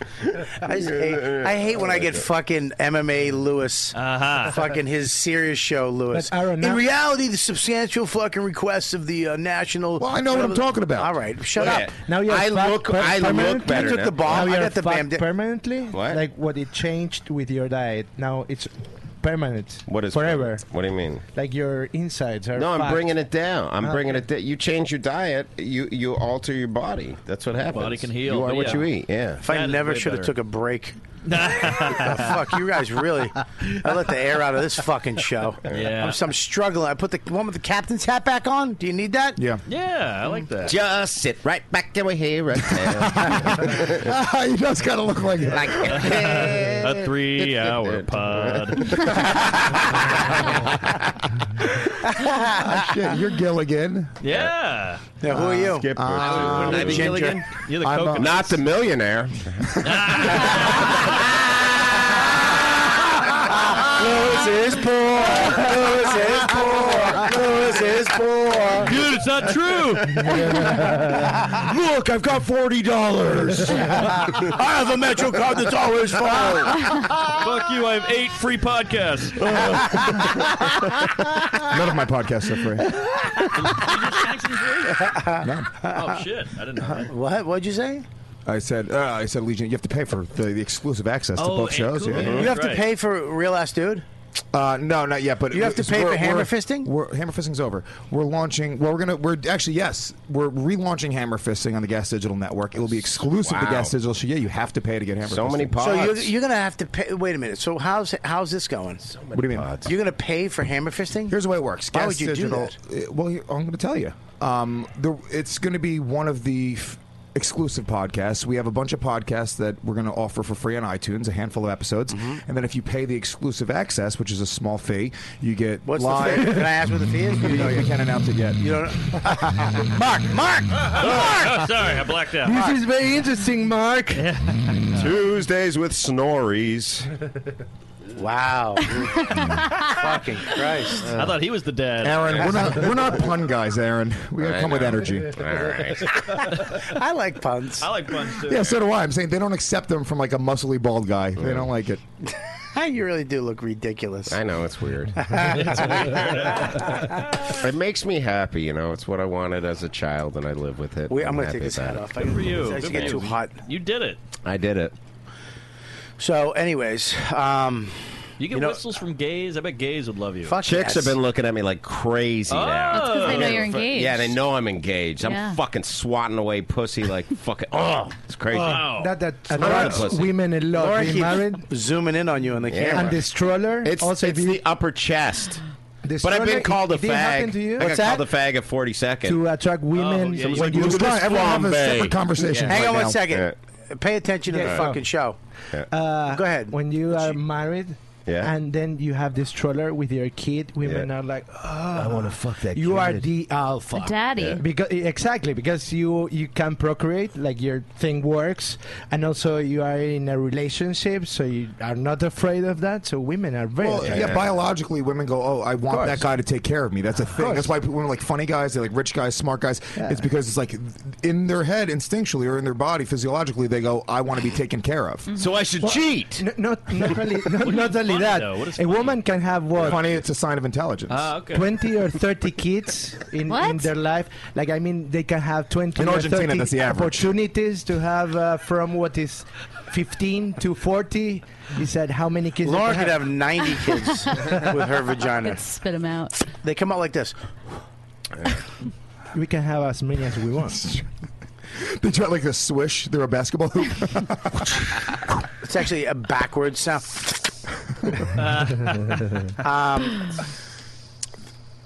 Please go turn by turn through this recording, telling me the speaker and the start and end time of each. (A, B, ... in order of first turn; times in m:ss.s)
0:00.2-0:02.2 A
0:00.6-0:11.9 B
0:04.0-0:04.6 C
0:06.1-0:06.8 D
0:10.0-0:11.1 E
0:11.6-0:14.4 A
0:12.0-0:20.6 D
0:13.6-0:15.3 B
0:15.9-0:16.2 A
0:19.9-0:21.2 A
0:21.3-0:23.2 D
0:22.6-0:29.4 A
0:27.7-0:28.9 C
0:29.4-0:39.4 B
0:29.4-0:30.3 C
0:31.3-0:32.5 C
0:35.7-0:36.2 C
0:39.4-0:39.6 E
0:39.7-0:40.8 C
0:40.6-0:44.1 A
0:42.8-0:46.1 E
0:45.5-0:50.9 A
0:45.9-0:49.3 C
0:52.1-0:52.8 B
0:52.6-0:54.1 E
0:54.2-0:55.0 C
0:55.2-0:57.5 B
0:55.4-0:57.4 A
0:56.0-0:58.4 E
0:57.6-0:58.6 C
0:58.1-1:01.9 A
0:59.8-1:01.1 C
1:03.4-1:08.9 B
1:06.6-1:07.3 E
1:08.8-1:10.3 C
1:10.6-1:11.0 D
1:11.6-1:14.0 E
1:14.2-1:17.0 B
1:17.3-1:19.7 C
1:19.6-1:20.4 B
1:21.6-1:23.0 E
1:23.2-1:23.9 B
1:23.5-1:25.2 C
1:24.9-1:26.2 B
1:25.4-1:25.7 E
1:25.9-1:27.1 C
1:26.8-1:28.0 B
1:28.5-1:32.5 E
1:31.4-1:32.9 C
1:32.1-1:32.5 A
1:32.2-1:34.0 B
1:34.5-1:45.8 E
1:35.5-1:36.9 B
1:43.4-1:43.9 A
1:45.3-1:46.3 A
1:45.8-1:49.1 B
1:49.1-1:49.9 A
1:49.3-1:49.8 E
1:49.8-1:51.4 B
1:51.3-2:06.8 E
1:51.9-1:52.7 B
2:05.9-2:07.9 B
2:07.4-2:08.9 E
2:08.6-2:11.9 B
2:10.8-2:12.7 C
2:12.4-2:14.3 D
2:14.1-2:15.1 C
2:14.9-2:17.1 A
2:18.2-2:21.1 B
2:21.1-2:22.9 C
2:22.0-2:25.4 E
2:24.4-2:26.5 A
2:26.5-2:27.9 B
2:27.8-2:28.8 C
2:28.4-2:32.0 E
2:31.4-2:31.7 A
2:32.3-2:34.4 B
2:34.3-2:35.4 A
2:35.2-2:37.4 B
2:37.5-2:42.1 A
2:41.1-2:43.6 B
2:42.2-2:44.2 C
2:42.8-2:43.2 A
2:44.4-2:44.9 A
2:46.2-2:48.8 B
2:48.4-2:50.6 C
2:50.4-2:51.2 B
2:50.6-2:58.9 A
2:52.5-2:53.9 C
2:52.9-2:54.3 F
2:55.2-2:55.6 F
2:58.5-3:01.6 D
2:58.5-2:59.1 C
2:59.5-3:00.3 A
3:00.7-3:03.2 B
3:02.7-3:03.2 A
3:02.9-3:04.6 D
3:03.8-3:05.6 A
3:06.0-3:07.9 D
3:06.2-3:09.4 A
3:07.8-3:08.3 B
3:09.2-3:11.3 D
3:09.9-3:11.0 C
3:10.5-3:13.6 A
3:10.6-3:13.2 E
3:12.7-3:15.4 B
3:14.5-3:15.0 D
3:14.6-3:14.9 A
3:15.9-3:34.3 D
3:16.3-3:16.8 B
3:18.3-3:18.5 A
3:22.0-3:23.3 A
3:23.9-3:24.6 F
3:33.8-3:45.3 E
3:34.0-3:34.5 A
3:35.9-3:36.2 D
3:37.4-3:37.8 D
3:45.4-3:46.5 A
3:45.8-3:50.0 D
3:47.6-3:49.2 C
3:49.8-3:51.3 E
3:51.1-3:51.7 C
3:51.5-4:03.2 D
3:53.5-3:53.9 F
3:56.0-3:57.3 E
4:02.6-4:05.7 B
4:05.4-4:06.4 F
4:06.5-4:07.4 B
4:09.3-4:10.9 D
4:10.8-4:11.0 E
4:11.8-4:15.4 E
4:15.6-4:17.5 B
4:18.4-4:19.3 C
4:19.6-4:20.4 B